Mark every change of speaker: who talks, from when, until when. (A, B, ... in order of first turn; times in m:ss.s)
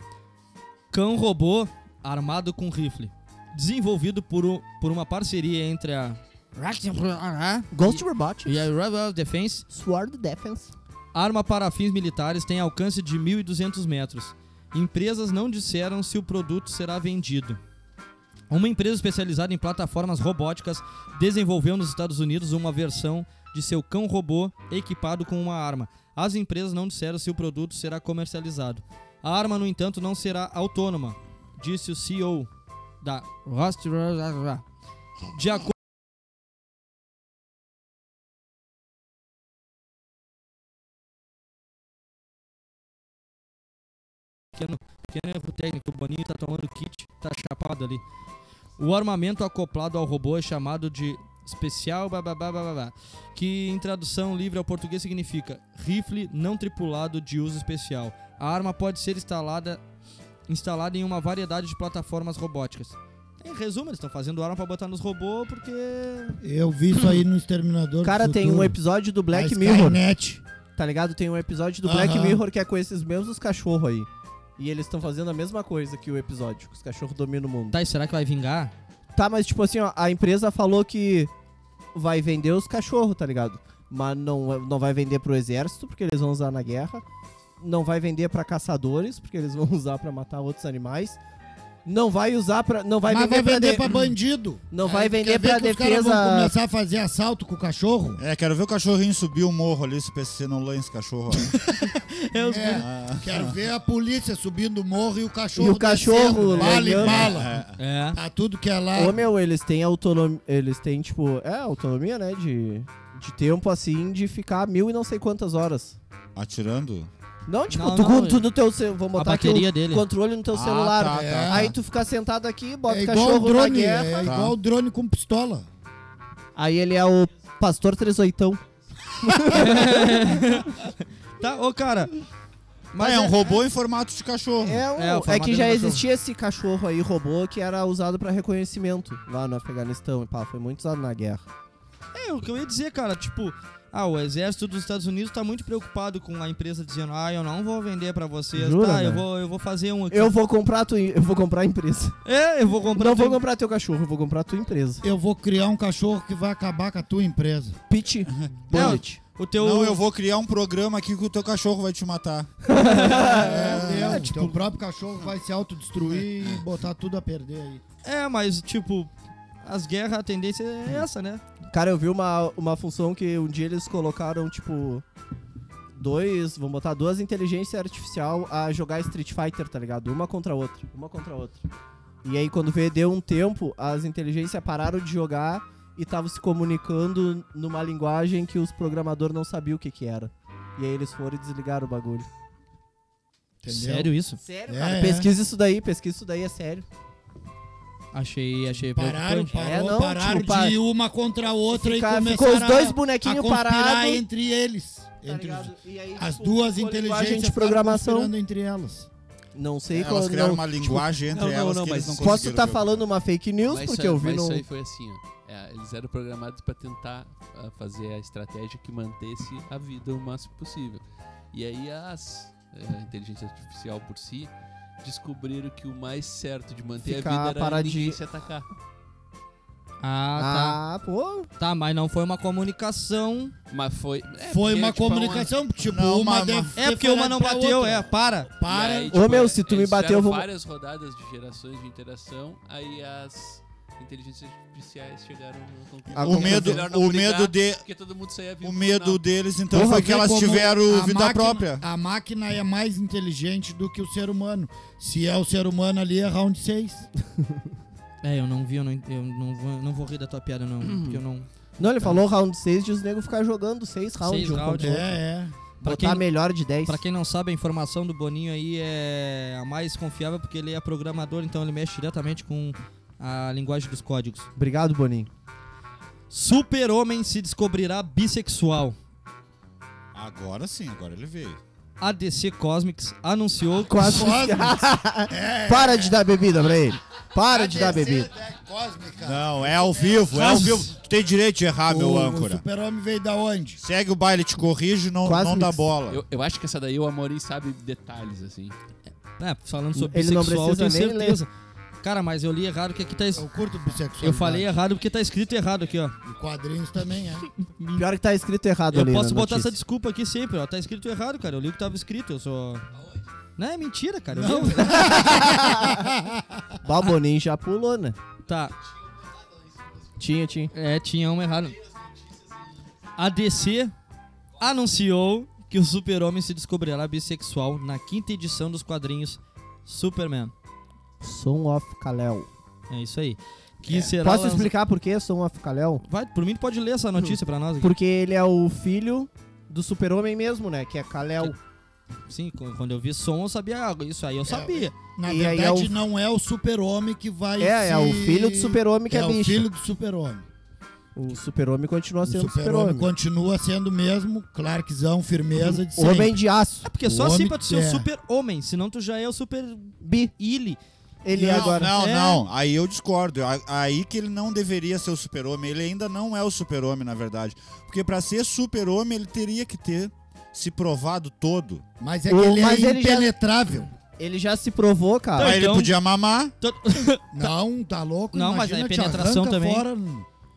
0:00.9-0:09.7 A
0:07.7-0:08.7 B
0:09.7-0:10.7 B
0:11.1-0:17.6 A
0:18.5-0:32.5 A
0:33.0-0:34.6 A
0:35.3-0:35.8 A
0:44.5-0:48.0 A
0:48.8-0:59.8 A
1:00.5-1:06.4 A
1:06.4-1:08.8 C
1:08.0-1:10.0 B
1:09.3-1:10.4 C
1:10.8-1:17.8 B
1:11.8-1:12.4 C
1:17.7-1:18.7 A
1:19.2-1:21.3 B
1:21.9-1:27.0 B
1:27.6-1:31.2 B
1:31.9-1:34.0 B
1:33.1-1:38.2 C
1:34.7-1:36.6 B
1:38.2-1:41.7 D
1:41.8-1:42.9 A
1:42.3-1:49.2 C
1:42.8-1:43.6 D
1:45.6-1:47.4 B
1:46.8-1:47.8 D
1:47.8-1:48.2 A
1:48.9-1:56.0 B
1:56.4-1:57.1 D
1:57.5-2:04.3 B
1:57.7-1:58.5 A
1:59.1-2:00.0 A
2:00.5-2:01.8 D
2:01.1-2:01.7 C
2:02.9-2:05.7 C
2:04.2-2:04.6 D
2:06.6-2:08.6 B
2:09.2-2:10.4 B
2:09.4-2:12.1 A
2:12.9-2:13.5 A
2:13.0-2:14.8 D
2:14.6-2:21.5 B
2:15.0-2:16.0 A
2:22.1-2:30.3 A
2:28.5-2:29.3 B
2:30.1-2:32.2 B
2:32.2-2:33.4 A
2:33.0-2:35.0 B
2:35.0-2:37.8 C
2:37.9-2:39.2 B
2:38.3-2:39.0 D
2:38.7-2:40.0 A
2:39.6-2:42.6 D
2:42.7-2:44.3 B
2:42.7-2:44.6 A
2:43.1-2:47.8 C
2:43.4-2:44.2 D
2:48.0-2:49.1 A
2:49.6-2:51.4 A
2:51.7-2:55.0 B
2:56.0-3:01.6 B
3:02.2-3:12.3 B
3:13.6-3:14.1 C
3:13.7-3:14.4 A
3:14.4-3:16.8 B
3:14.7-3:15.3 C
3:18.1-3:19.5 A
3:18.9-3:29.1 C
3:19.5-3:20.8 B
3:21.7-3:24.2 B
3:25.2-3:28.3 B
3:29.6-3:31.1 B
3:29.9-3:33.0 D
3:31.3-3:32.6 E
3:32.2-3:34.6 B
3:33.6-3:44.5 E
3:45.0-3:48.7 E
3:47.0-3:48.2 B
3:50.0-3:50.8 A
3:50.4-3:51.5 B
3:51.6-3:53.5 A
3:53.7-3:55.5 E
3:54.5-3:59.4 C
3:55.9-3:56.8 D
3:56.8-3:58.5 A
3:58.6-4:09.2 E
3:59.1-4:00.5 B
4:06.1-4:07.8 D
4:06.2-4:06.8 B
4:08.6-4:11.8 D
4:09.7-4:17.1 C
4:18.2-4:22.2 A
4:20.9-4:21.2 B
4:21.8-4:25.2 B
4:24.2-4:25.0 A
4:24.8-4:25.6 C
4:25.8-4:26.2 A
4:25.8-4:27.0 B
4:26.8-4:34.5 A
4:34.6-4:35.3 B
4:36.3-4:39.0 A
4:40.1-4:41.6 D
4:42.0-4:44.1 A
4:43.8-4:48.3 B
4:44.0-4:44.8 C
4:45.3-4:46.2 C
4:47.4-4:50.8 C
4:49.2-4:52.6 D
4:51.9-4:53.8 C
4:53.8-4:56.2 D
4:55.2-4:55.8 B
4:56.1-4:58.8 E
4:59.4-5:01.5 A
4:59.9-5:01.4 B
5:02.0-5:03.4 A
5:03.3-5:04.8 C
5:04.2-5:06.2 A
5:06.2-5:07.5 C
5:07.6-5:08.1 A
5:08.0-5:09.7 B
5:08.9-5:12.9 A
5:13.6-5:15.2 A
5:14.3-5:16.5 C
5:14.9-5:16.1 B
5:16.8-5:18.2 B
5:18.5-5:18.8 A
5:20.2-5:20.7 B
5:20.7-5:21.8 A
5:23.2-5:23.9 A
5:24.6-5:30.5 A
5:31.2-5:32.5 B
5:32.9-5:34.7 A
5:33.9-5:36.0 B
5:36.0-5:38.0 A
5:37.8-5:41.6 B
5:42.3-5:44.9 A
5:44.5-5:50.5 C
5:45.2-5:46.0 B
5:47.6-5:49.6 B
5:51.2-5:53.1 B
5:52.2-5:56.4 C
5:55.6-5:56.9 B
5:56.8-6:00.8 A
5:57.0-5:58.1 C
6:00.0-6:00.3 B
6:01.2-6:01.9 B
6:01.3-6:11.8 D
6:01.8-6:02.4 A
6:12.0-6:14.0 C
6:12.3-6:13.3 B
6:14.2-6:15.6 B
6:15.4-6:15.9 A
6:15.4-6:16.5 D
6:16.6-6:17.5 A
6:17.3-6:20.3 C
6:18.3-6:19.9 A